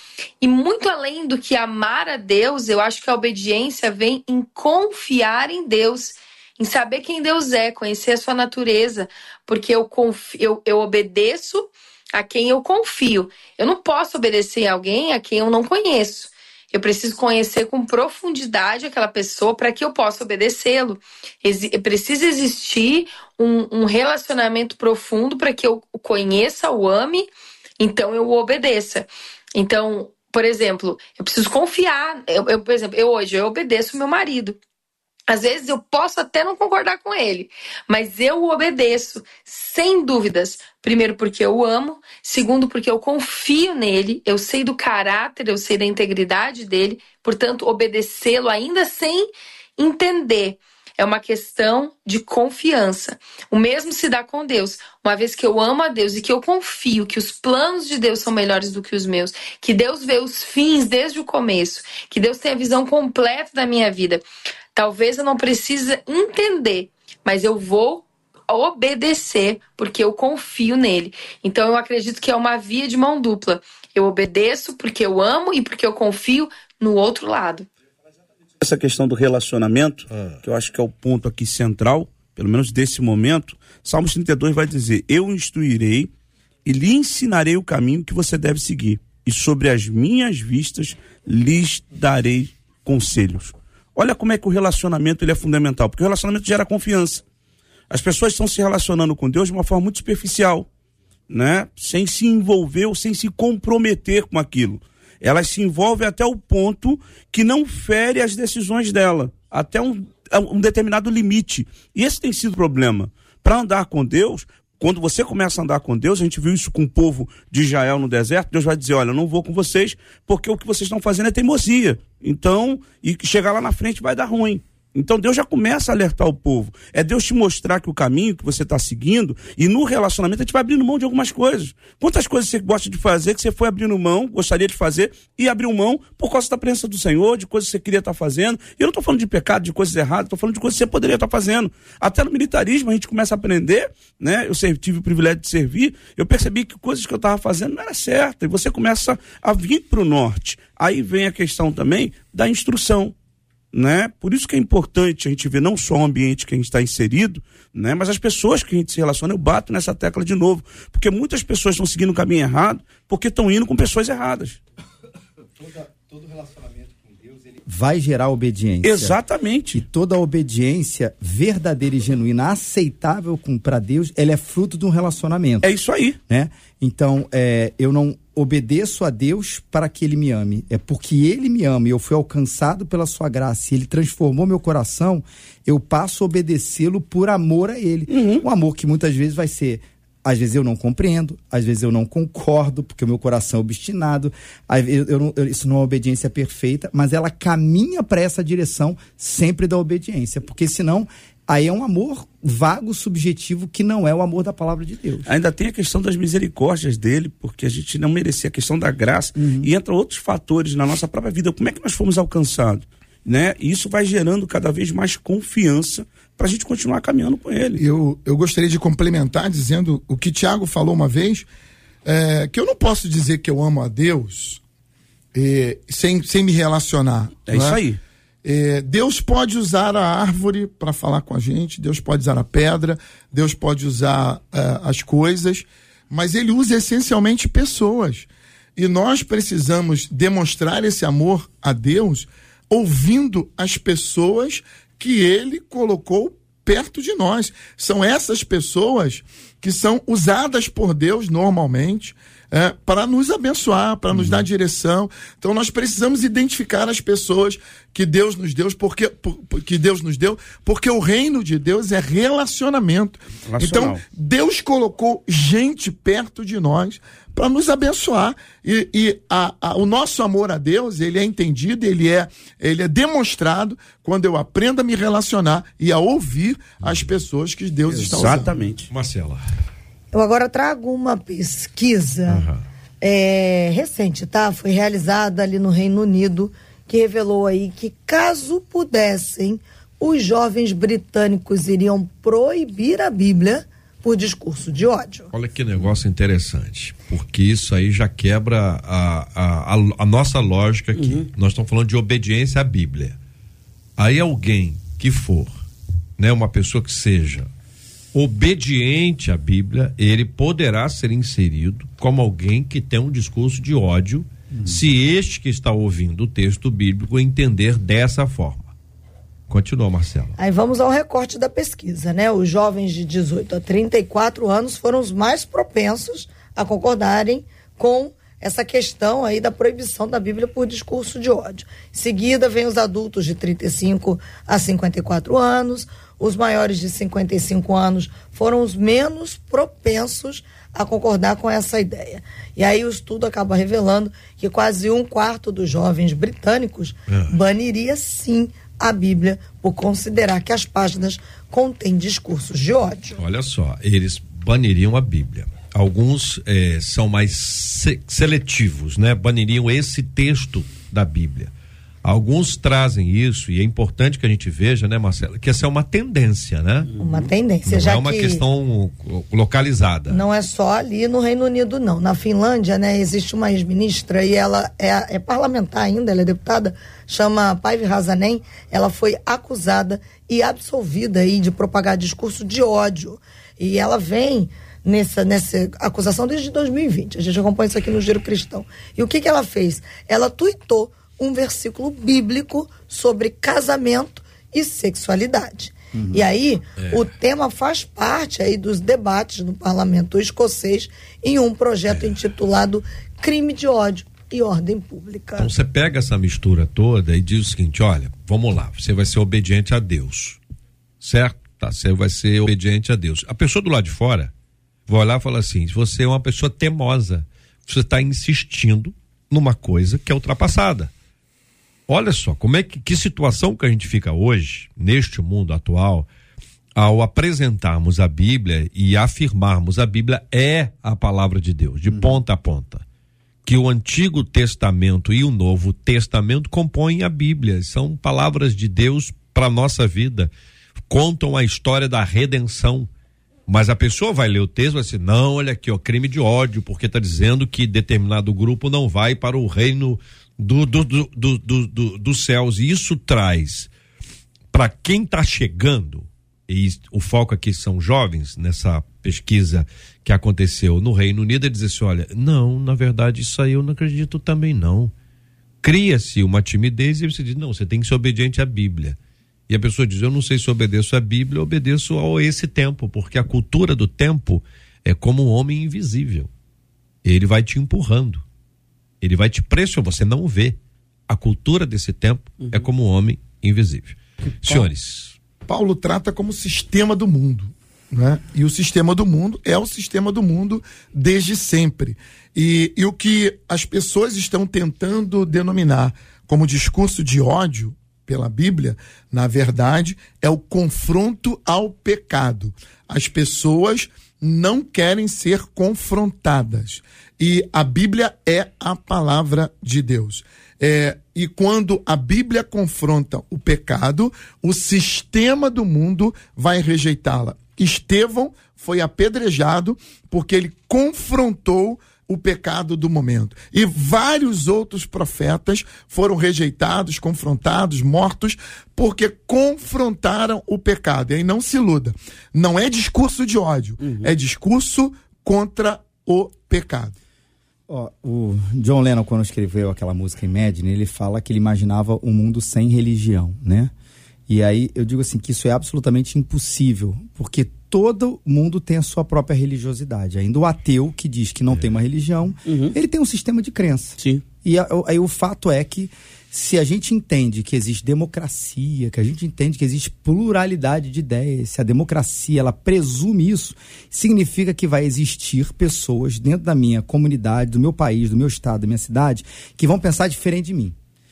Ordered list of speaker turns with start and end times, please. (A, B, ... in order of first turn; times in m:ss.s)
0:00.4-0:27.3 A
0:27.8-0:34.6 A
0:35.3-1:04.2 A
1:04.8-1:17.7 A
1:18.6-1:26.1 B
1:26.6-1:37.2 B
1:37.9-1:40.7 B
1:41.3-2:33.2 B
2:33.7-2:44.6 B
2:46.1-2:49.2 C
2:48.8-2:49.8 B
2:49.7-2:55.7 C
2:55.6-2:56.2 B
2:56.3-3:25.3 C
3:08.1-3:08.4 B
3:25.3-3:37.8 B
3:29.4-3:29.7 C
3:37.8-3:41.5 D
3:42.0-3:44.6 D
3:45.3-3:47.8 D
3:47.5-3:48.0 B
3:48.4-4:38.6 D
4:23.5-4:24.0 B
4:36.8-4:37.1 E
4:37.9-4:38.9 B
4:38.9-4:39.4 E
4:40.1-4:42.5 F
4:42.3-4:42.6 E
4:43.0-4:55.3 F
4:55.3-5:03.2 E
5:01.0-5:01.3 B
5:04.0-5:05.6 E
5:06.2-5:07.5 E
5:08.1-5:18.7 E
5:19.5-5:20.4 E
5:20.4-5:53.2 F
5:47.1-5:47.4 E
5:53.2-6:01.5 E
6:02.0-6:06.9 E
6:07.0-6:07.3 B
6:07.0-6:08.4 F
6:07.7-6:10.2 E
6:10.1-6:45.5 F
6:36.0-6:36.2 C
6:36.8-6:37.1 E
6:45.4-6:50.4 E
6:51.0-6:54.3 E
6:54.9-7:00.9 E
7:01.9-7:06.1 E
7:06.8-7:12.8 E
7:13.5-7:20.3 E
7:20.9-7:22.9 E
7:23.5-7:33.7 E
7:34.5-7:44.9 E
7:45.6-7:49.0 E
7:49.5-7:56.3 E
7:57.0-7:58.2 E
7:59.0-8:00.6 E
8:01.1-8:05.2 E
8:02.4-8:02.7 B
8:05.5-8:57.0 D
8:53.8-8:54.1 B
8:57.7-9:03.7 C
9:04.3-9:30.8 C
9:12.5-9:12.8 B
9:14.0-9:14.2 B